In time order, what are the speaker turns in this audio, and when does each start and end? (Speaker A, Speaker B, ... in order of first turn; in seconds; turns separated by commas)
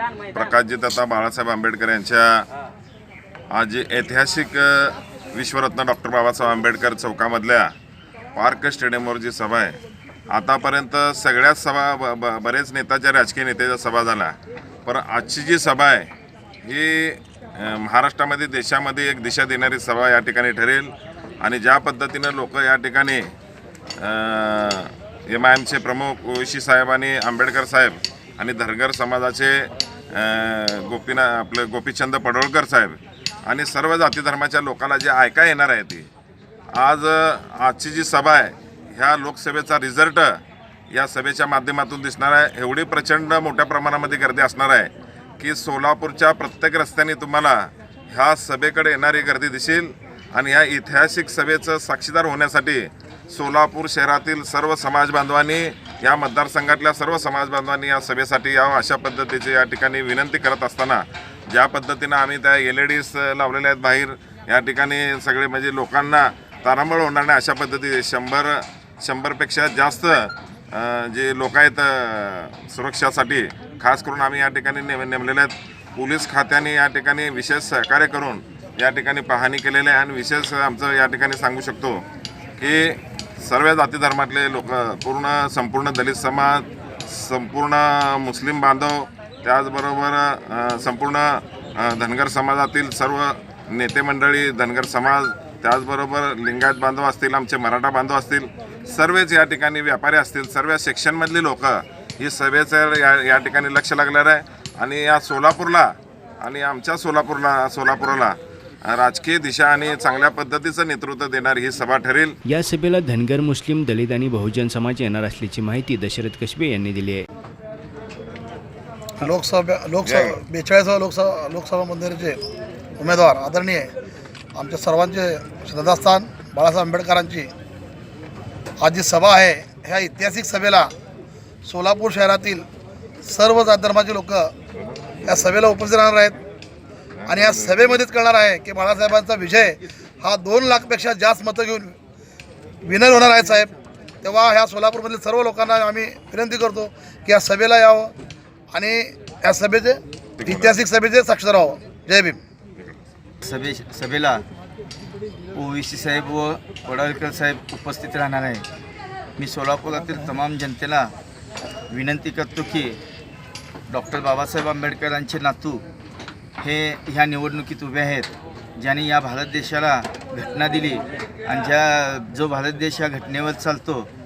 Speaker A: 0.3-2.5, Speaker A: 3.5-7.7, Speaker A: 8.3-9.8, Speaker A: 10.3-16.1, Speaker A: 16.6-23.3, Speaker A: 24.0-36.1, Speaker A: 36.7-82.0, Speaker A: 82.6-112.4, Speaker B: 112.5-117.3, Speaker C: 119.2-122.4, Speaker A: 120.0-120.3, Speaker C: 123.0-123.9, Speaker C: 124.5-127.5, Speaker C: 128.8-130.9, Speaker C: 131.7-132.7, Speaker C: 133.2-134.5, Speaker C: 135.2-136.4, Speaker A: 137.2-137.8, Speaker C: 137.3-142.0, Speaker C: 142.8-148.1, Speaker C: 148.7-152.4, Speaker A: 150.4-150.9, Speaker D: 153.4-154.4, Speaker D: 155.5-158.7, Speaker D: 159.4-161.1, Speaker D: 161.9-163.0, Speaker D: 163.9-165.8, Speaker D: 166.6-174.1